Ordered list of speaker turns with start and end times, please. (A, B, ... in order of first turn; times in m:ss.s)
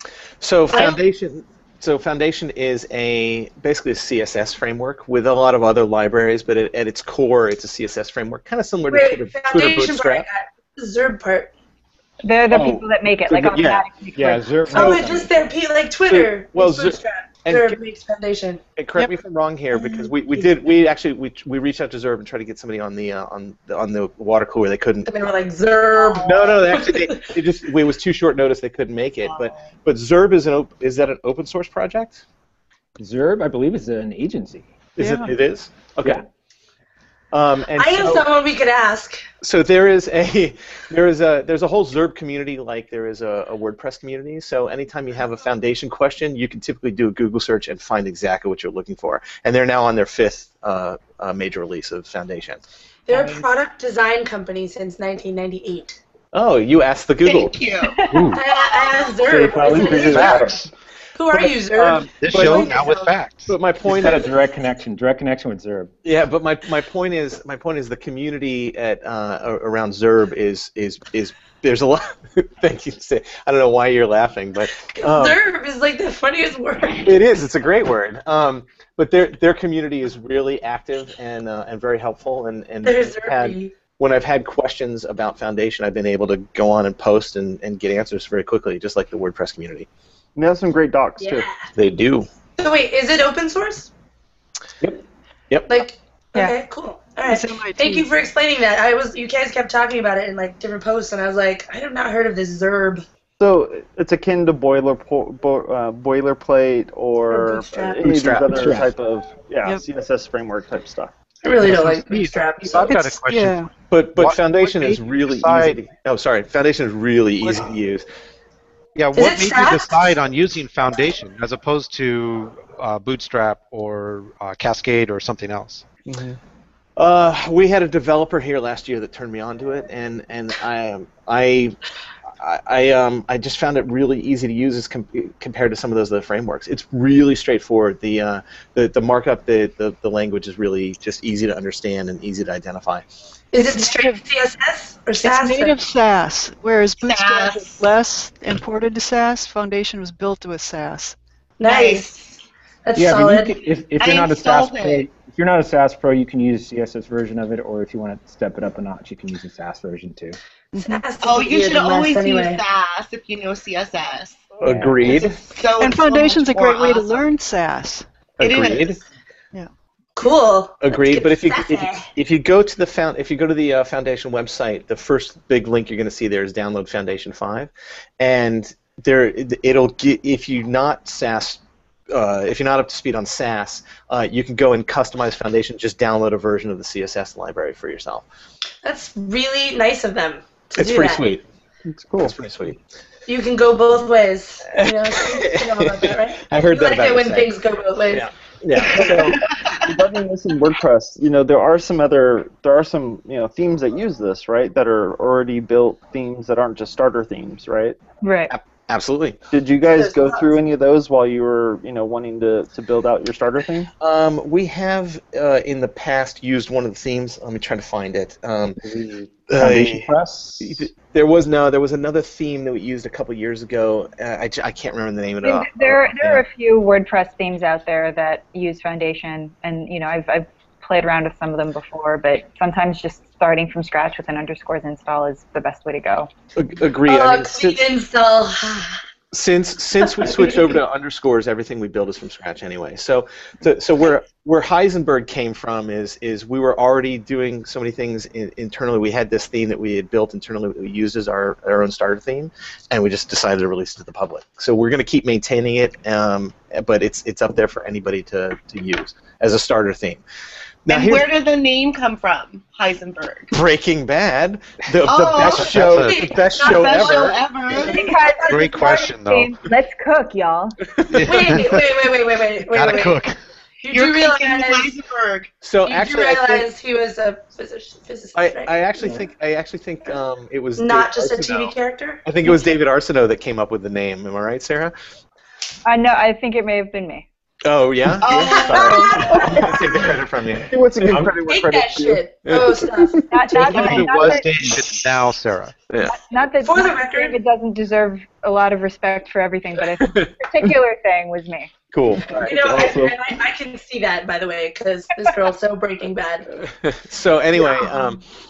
0:00.4-0:10.3 A
0:00.7-0:01.0 B
0:08.9-0:11.5 B
0:12.2-0:14.9 C
0:12.5-0:13.8 A
0:14.2-0:15.5 D
0:14.7-0:18.6 B
0:14.8-0:15.0 A
0:16.1-0:17.8 A
0:18.8-0:25.1 A
0:19.7-0:20.4 E
0:25.1-0:27.3 B
0:25.9-0:26.6 F
0:26.2-0:32.2 A
0:29.2-0:29.8 F
0:33.0-0:34.7 D
0:35.0-0:36.2 A
0:35.0-0:35.3 E
0:37.3-0:38.3 A
0:37.8-0:39.2 B
0:39.4-0:52.6 A
0:53.1-0:56.0 B
0:56.3-0:57.5 A
0:57.2-0:59.1 F
0:57.8-0:58.2 C
0:58.1-0:58.4 D
0:58.2-1:00.5 B
0:59.3-1:00.5 D
0:59.6-1:00.6 G
0:59.8-1:00.3 A
1:00.2-1:00.7 H
1:01.2-1:03.2 B
1:01.3-1:02.8 A
1:02.2-1:03.5 H
1:03.5-1:04.2 A
1:03.9-1:05.9 D
1:06.0-1:15.4 A
1:15.0-1:17.1 B
1:17.0-1:29.9 A
1:22.8-1:23.8 B
1:30.4-1:31.5 G
1:31.2-1:31.7 B
1:31.8-1:32.3 A
1:32.6-1:33.9 B
1:35.5-1:35.8 A
1:35.7-1:43.0 B
1:37.2-1:38.1 E
1:43.4-1:51.1 G
1:47.3-1:48.1 B
1:48.0-1:48.8 A
1:48.5-1:48.9 D
1:51.4-1:53.2 B
1:51.6-1:55.8 H
1:53.2-1:53.7 E
1:53.9-1:58.1 A
1:59.0-2:05.8 H
1:59.1-2:00.2 B
2:06.1-2:06.4 G
2:07.0-2:11.8 A
2:12.4-2:23.0 A
2:23.5-2:25.8 B
2:23.6-2:24.2 E
2:25.2-2:31.2 E
2:27.0-2:27.9 F
2:31.6-2:33.5 B
2:31.6-2:32.1 F
2:33.0-2:40.4 D
2:34.0-2:35.1 F
2:40.7-2:41.0 E
2:40.8-2:42.6 B
2:41.2-2:47.2 F
2:44.6-2:45.2 D
2:44.6-2:45.4 A
2:45.8-2:48.1 E
2:48.4-2:49.0 F
2:48.4-2:49.0 A
2:50.2-2:52.1 B
2:50.8-3:08.2 A
3:08.8-3:11.3 B
3:10.8-3:11.4 A
3:11.9-3:12.4 G
3:12.2-3:12.8 A
3:13.3-3:18.3 B
3:14.8-3:19.5 A
3:19.0-3:19.4 F
3:19.8-3:28.0 G
3:28.2-3:28.5 C
3:28.5-3:29.4 A
3:29.5-3:33.9 G
3:29.9-3:30.6 B
3:34.0-3:38.8 A
3:38.8-3:40.9 D
3:39.5-3:40.1 A
3:40.6-3:46.4 A
3:45.4-3:56.3 C
3:56.6-3:57.8 A
3:57.0-3:59.0 B
3:59.3-4:20.2 A
4:00.2-4:00.7 B
4:20.8-4:21.3 A
4:20.9-4:23.5 F
4:23.5-4:27.4 A
4:25.0-4:25.9 F
4:25.4-4:26.3 H
4:25.9-4:29.1 B
4:26.6-4:28.0 F
4:27.8-4:30.8 C
4:28.5-4:29.6 H
4:31.1-4:31.4 A
4:31.1-4:32.0 H
4:31.1-4:33.2 B
4:32.6-4:33.4 H
4:33.8-4:34.9 B
4:33.9-4:35.5 F
4:35.6-4:36.7 A
4:35.8-4:39.2 B
4:38.4-4:44.9 A
4:40.8-4:42.2 B
4:45.8-4:47.2 C
4:47.6-4:51.2 A
4:48.2-4:49.5 F
4:48.3-4:49.7 B
4:48.7-4:50.1 G
4:50.7-4:52.2 G
4:51.4-4:53.6 B
4:52.5-4:52.8 A
4:53.3-4:54.6 C
4:53.6-4:55.8 H
4:56.1-5:01.7 C
4:56.6-4:57.4 B
5:00.0-5:00.3 A
5:01.9-5:02.9 A
5:02.2-5:03.2 G
5:02.3-5:06.5 B
5:06.8-5:08.2 A
5:07.6-5:08.1 B